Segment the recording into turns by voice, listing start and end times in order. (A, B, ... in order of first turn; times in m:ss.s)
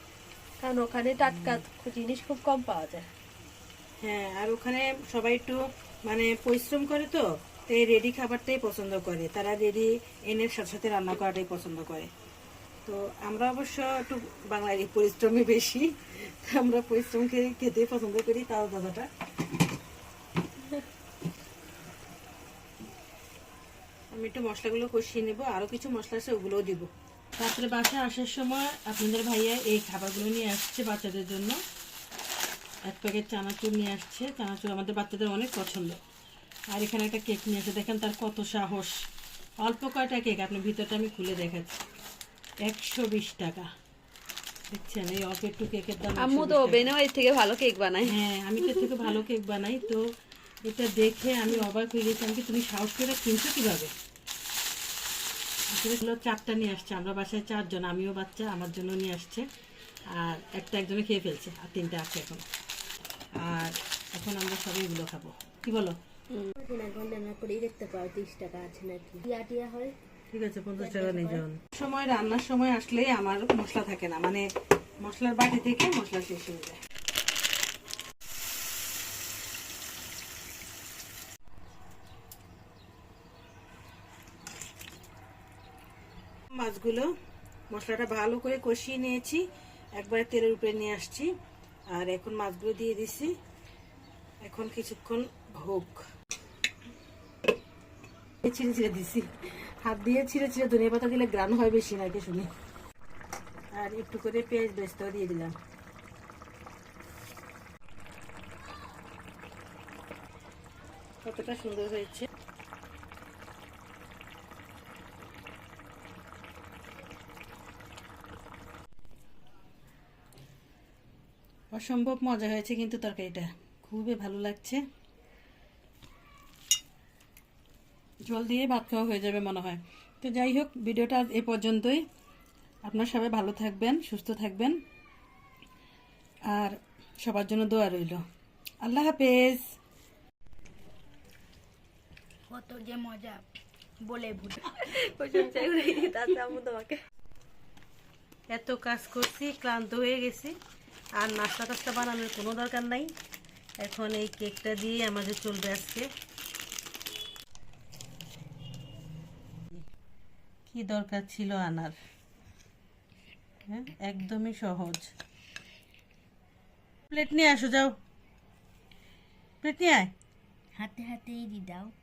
0:00.6-0:03.1 A
0:01.3-0:01.6 B
0:04.0-0:12.1 B
0:12.9-0:19.1 B
0:24.1-0:31.6 B
0:32.9-0:36.0 B
0:36.7-0:39.0 B
0:39.6-0:41.8 B
0:42.6-0:43.7 B
0:44.7-0:46.9 B
0:46.2-0:48.0 A
0:48.0-0:50.0 B
0:50.6-0:53.9 B
0:55.7-0:59.4 B
1:00.1-1:02.4 B
1:03.4-1:06.0 B
1:06.6-1:09.9 C
1:10.3-1:14.4 B
1:10.8-1:11.4 C
1:15.0-1:16.8 B
1:26.5-1:27.1 B
1:27.7-1:29.4 B
1:30.0-1:31.3 B
1:31.9-1:33.3 B
1:34.4-1:36.0 B
1:38.4-1:39.3 B
1:39.8-1:42.5 B
1:43.8-1:45.5 B
1:51.2-1:52.3 B
2:01.7-2:04.8 B
2:08.2-2:12.0 B
2:12.8-2:14.8 B
2:16.5-2:18.2 B
2:18.8-2:19.6 B
2:22.5-2:23.4 C
2:24.0-2:25.3 C
2:24.8-2:27.0 A
2:28.5-2:30.5 B
2:31.2-2:33.1 B
2:33.8-2:36.1 B
2:40.7-2:42.0 B
2:43.6-2:45.1 B
2:47.1-2:47.9 B
2:49.6-2:50.1 B
2:50.8-2:51.9 C